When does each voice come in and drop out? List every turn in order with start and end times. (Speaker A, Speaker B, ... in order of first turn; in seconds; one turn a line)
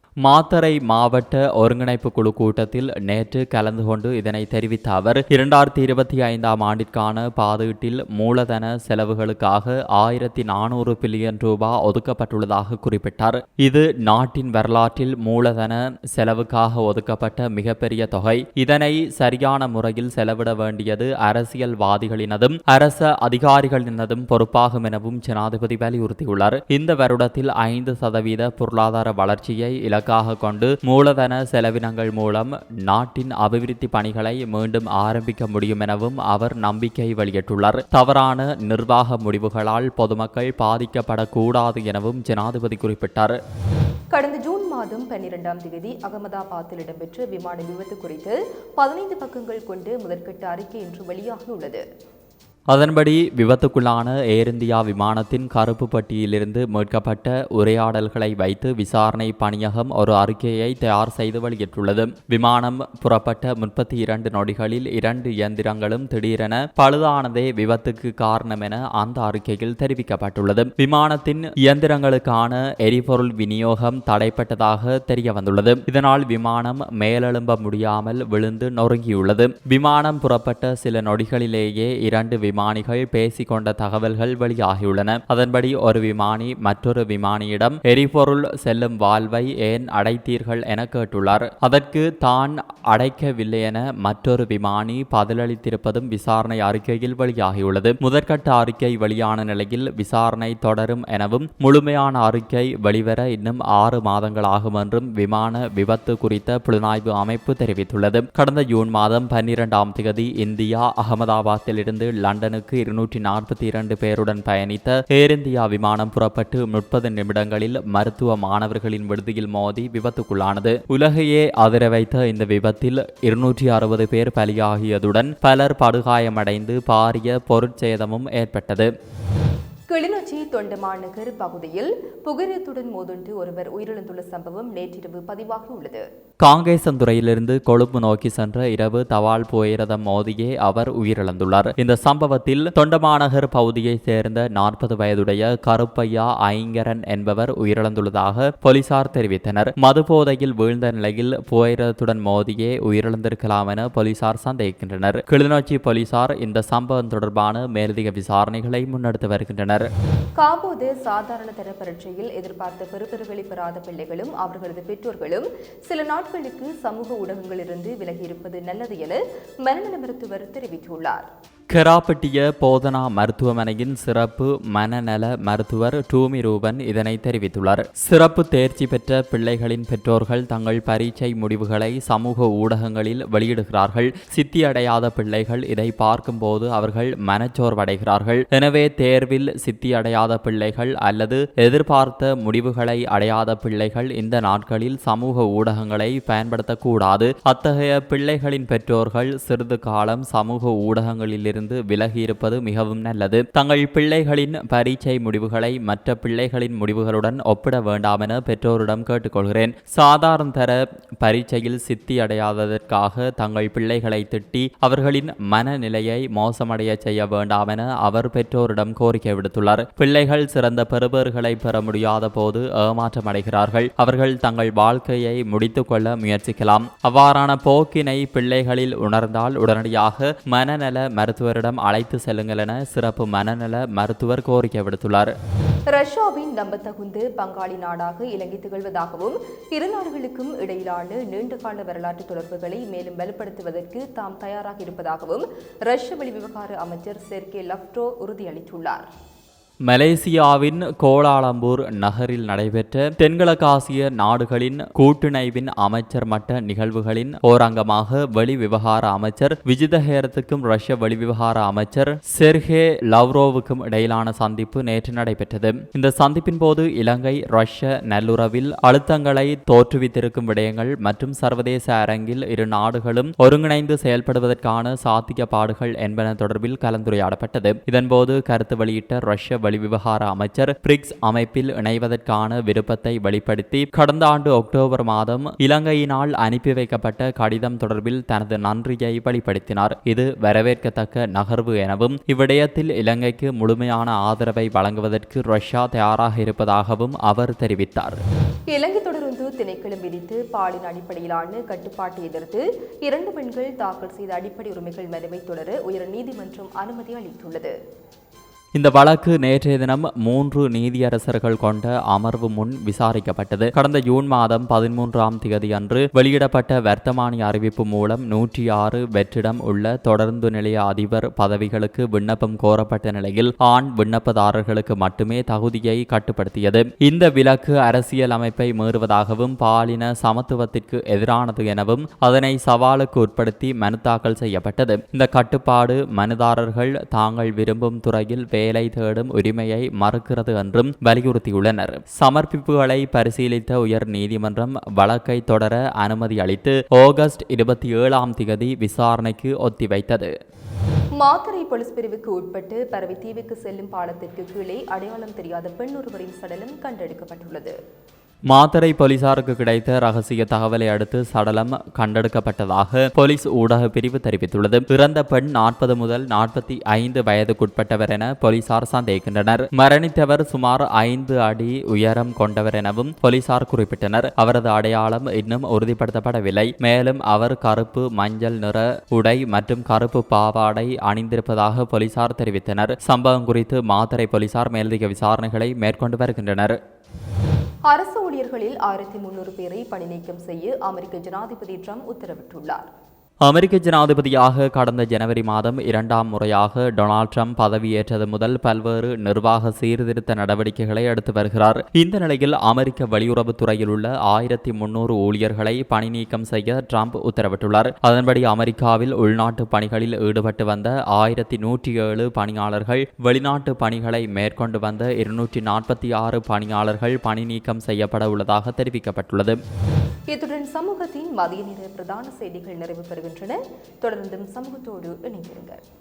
Speaker A: 0.2-43.4
Speaker B: 44.1-51.8
Speaker A: 52.7-128.9
Speaker B: 129.9-136.0
Speaker A: 136.4-159.9
Speaker B: 160.4-171.3
Speaker A: 171.7-235.3
Speaker B: 235.9-249.1
Speaker A: 249.9-298.2
Speaker B: 298.7-307.7
Speaker A: 308.8-350.3
Speaker B: 351.2-357.7
Speaker A: 358.5-386.8
Speaker B: 387.9-392.9
Speaker A: 393.5-419.6
Speaker B: 420.3-425.8